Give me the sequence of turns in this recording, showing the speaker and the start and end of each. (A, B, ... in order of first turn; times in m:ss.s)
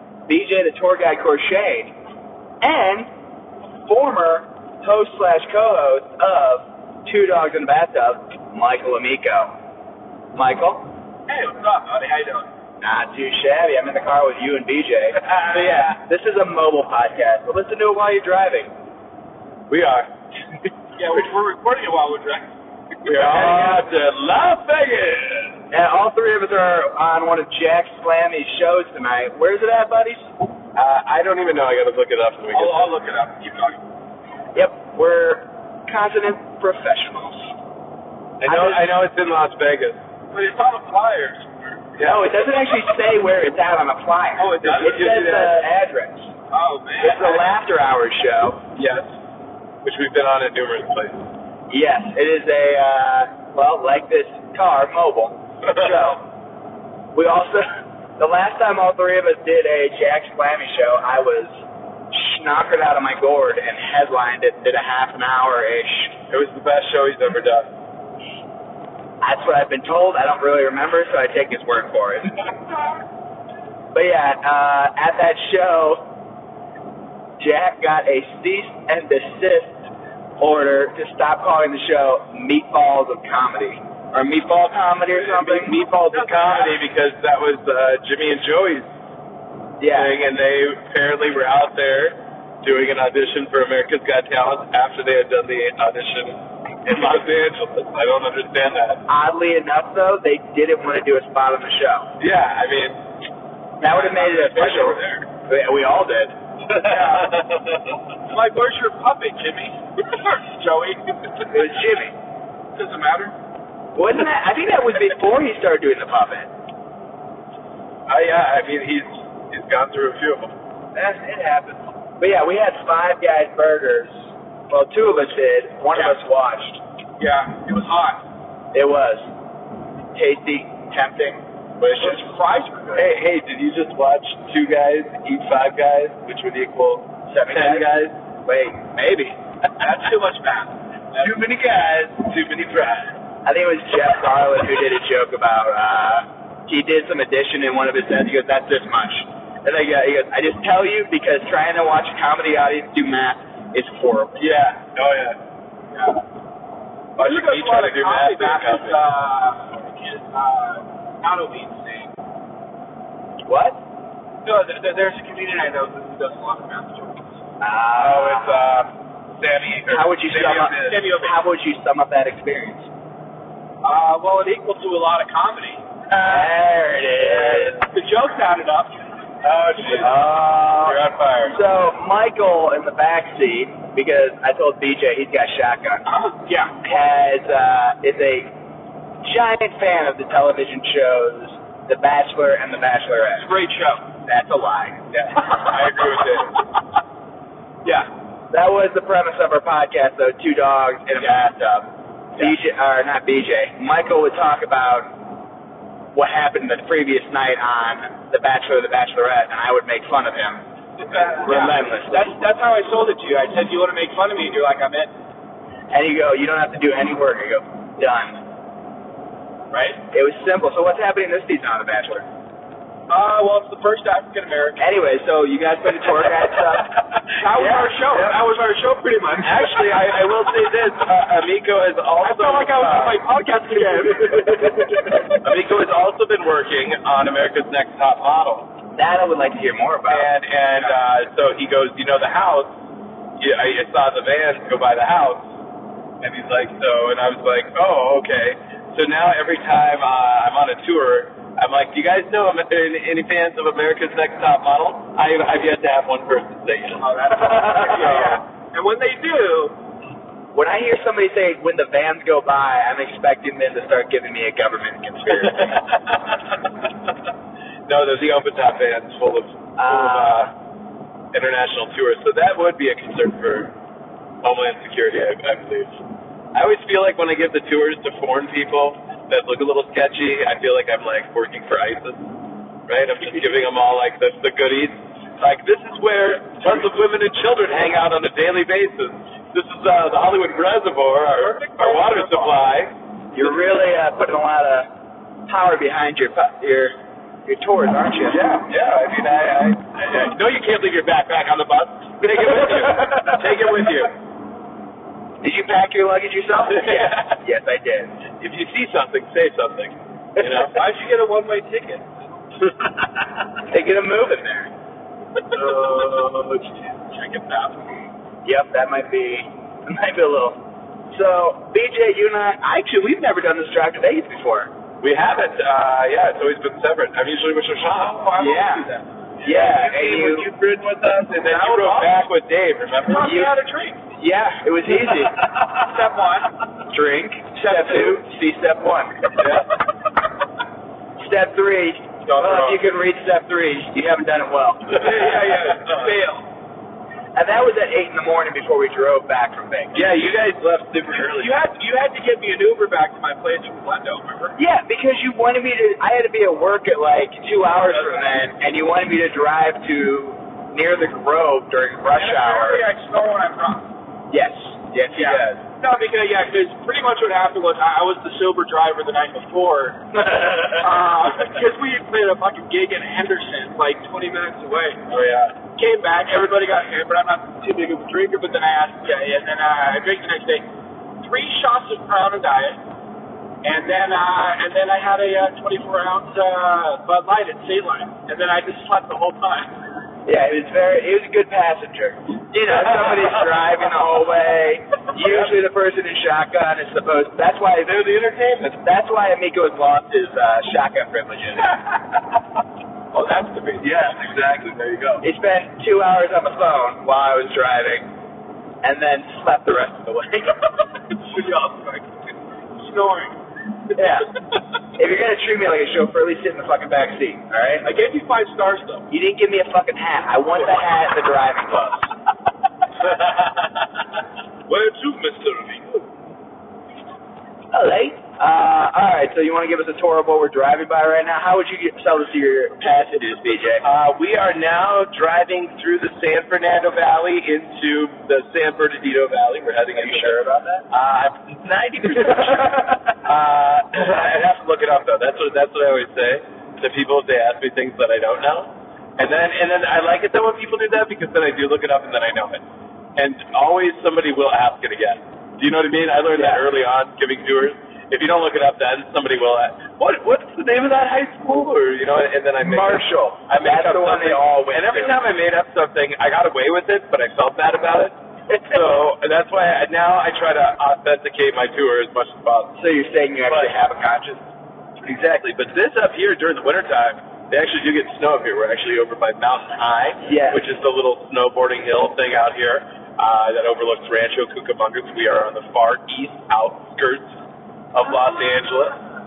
0:00.3-0:02.0 A
0:02.6-0:03.1 A
0:03.8-0:09.5 A
0:10.4-0:10.9 A
0:11.3-0:12.5 B
0:12.8-0:18.7 A
0:15.2-0:15.9 C
0:19.7-0:20.1 C
0:21.0-0:22.5 B
0:23.0-0:25.6 C
0:23.2-0:23.8 A
0:25.7-0:30.3 A
0:30.8-0:33.0 C
0:32.5-0:33.8 B
0:34.6-0:37.5 A
0:38.4-0:40.0 C
0:38.4-0:38.8 A
0:40.3-0:41.8 B
0:42.0-0:42.3 C
0:42.0-0:46.3 A
0:44.4-0:45.1 B
0:44.6-0:45.6 C
0:46.5-0:47.5 B
0:47.0-0:48.6 A
0:48.8-0:49.1 C
0:49.8-0:51.3 C
0:51.7-0:56.2 A
0:57.2-1:06.2 A
1:06.3-1:07.7 C
1:09.2-1:12.5 A
1:13.9-1:16.1 A
1:17.4-1:19.8 A
1:20.4-1:25.8 A
1:25.1-1:28.9 C
1:25.9-1:26.8 B
1:29.8-1:30.2 A
1:29.9-1:39.0 C
1:39.1-1:42.1 A
1:42.2-1:43.0 C
1:43.8-1:46.4 A
1:44.2-1:44.9 B
1:44.3-1:45.1 C
1:46.7-1:48.0 C
1:46.8-1:47.4 B
1:48.3-1:51.8 B
1:51.5-1:52.1 A
1:52.8-1:53.4 B
1:54.0-1:56.5 A
1:58.1-2:00.5 C
2:01.0-2:06.8 A
2:07.2-2:08.2 B
2:08.7-2:09.3 A
2:10.1-2:11.4 A
2:11.8-2:12.2 C
2:11.9-2:13.1 B
2:13.0-2:18.1 C
2:17.3-2:19.4 A
2:19.8-2:21.4 B
2:21.2-2:22.2 A
2:22.2-2:23.1 C
2:23.4-2:34.6 A
2:34.4-2:35.4 C
2:35.9-2:36.2 B
2:37.2-2:39.0 C
2:37.2-2:42.1 B
2:43.5-2:43.8 A
2:44.4-2:47.3 B
2:47.6-2:48.7 A
2:48.0-2:51.0 C
2:49.9-2:52.9 A
2:50.4-2:51.4 B
2:53.8-2:55.8 B
2:56.1-2:56.5 C
2:56.1-2:57.8 A
2:57.2-2:57.8 C
2:57.8-2:59.0 B
2:59.4-3:01.6 C
3:00.0-3:06.1 A
3:06.1-3:06.8 B
3:06.8-3:08.5 A
3:09.2-3:13.5 A
3:13.4-3:14.0 B
3:14.3-3:15.0 A
3:15.1-3:16.6 C
3:15.5-3:15.8 B
3:18.5-3:25.1 A
3:26.1-3:30.6 A
3:31.1-3:35.1 B
3:31.3-3:32.3 A
3:35.9-3:38.4 A
3:39.7-3:40.0 B
3:40.1-3:42.3 A
3:43.1-3:44.8 B
3:44.8-3:47.0 A
3:47.3-3:50.2 B
3:47.6-3:48.0 A
3:48.1-3:48.4 C
3:49.4-3:53.2 C
3:52.2-3:55.3 B
3:55.3-3:58.7 C
3:59.0-4:00.3 A
4:00.1-4:02.8 C
4:03.4-4:05.5 C
4:06.2-4:18.4 C
4:17.0-4:19.8 B
4:20.5-4:25.8 A
4:25.3-4:26.9 C
4:27.9-4:30.5 C
4:29.8-4:30.5 A
4:31.3-4:33.7 C
4:34.4-4:36.0 C
4:36.5-4:42.3 C
4:42.9-4:52.9 C
4:51.3-4:52.7 B
4:53.3-4:54.9 A
4:55.5-4:57.0 A
4:57.5-4:58.4 A
4:58.3-5:04.1 C
5:02.4-5:03.4 A
5:05.4-5:08.1 A
5:06.7-5:07.4 C
5:08.4-5:10.8 C
5:10.4-5:10.7 A
5:10.7-5:12.1 B
5:13.7-5:14.7 A
5:15.5-5:16.2 B
5:15.5-5:16.6 C
5:17.1-5:17.9 B
5:18.4-5:20.6 A
5:21.1-5:24.7 A
5:25.0-5:28.4 C
5:28.0-5:29.1 B
5:28.4-5:28.9 A
5:29.4-5:30.5 A
5:29.4-5:33.4 C
5:31.4-5:32.2 B
5:33.0-5:34.0 B
5:33.2-5:33.5 A
5:34.2-5:35.4 A
5:35.6-5:36.5 B
5:36.9-5:39.4 A
5:39.4-5:39.7 C
5:41.2-5:45.2 A
5:42.3-5:42.8 C
5:44.9-5:46.2 C
5:44.9-5:46.5 B
5:47.4-5:50.1 A
5:49.9-5:51.6 C
5:51.1-5:54.6 B
5:54.6-6:02.8 A
6:02.1-6:03.9 B
6:04.3-6:05.5 A
6:05.2-6:15.0 B
6:10.3-6:10.8 A
6:15.1-6:15.6 C
6:15.8-6:20.7 B
6:21.2-6:22.8 B
6:23.6-6:29.8 B
6:30.3-6:38.0 A
6:33.0-6:33.4 C
6:37.8-6:38.8 C
6:38.8-6:41.8 A
6:43.1-6:43.9 B
6:43.8-6:45.2 C
6:45.2-6:48.1 A
6:48.8-6:50.8 A
6:51.3-6:52.1 B
6:52.8-6:53.4 B
6:54.0-6:54.3 A
6:55.0-6:57.9 A
6:57.8-6:59.1 B
6:59.1-7:02.1 A
7:03.1-7:03.7 C
7:04.7-7:06.1 C
7:07.7-7:13.9 A
7:13.8-7:32.6 C
7:20.0-7:20.8 A
7:33.2-7:52.8 C
7:36.3-7:36.6 A
7:42.6-7:45.2 A
7:52.8-7:54.4 A
7:53.5-7:53.8 C
7:55.0-8:07.4 C
8:00.2-8:00.6 A
8:07.9-8:09.0 C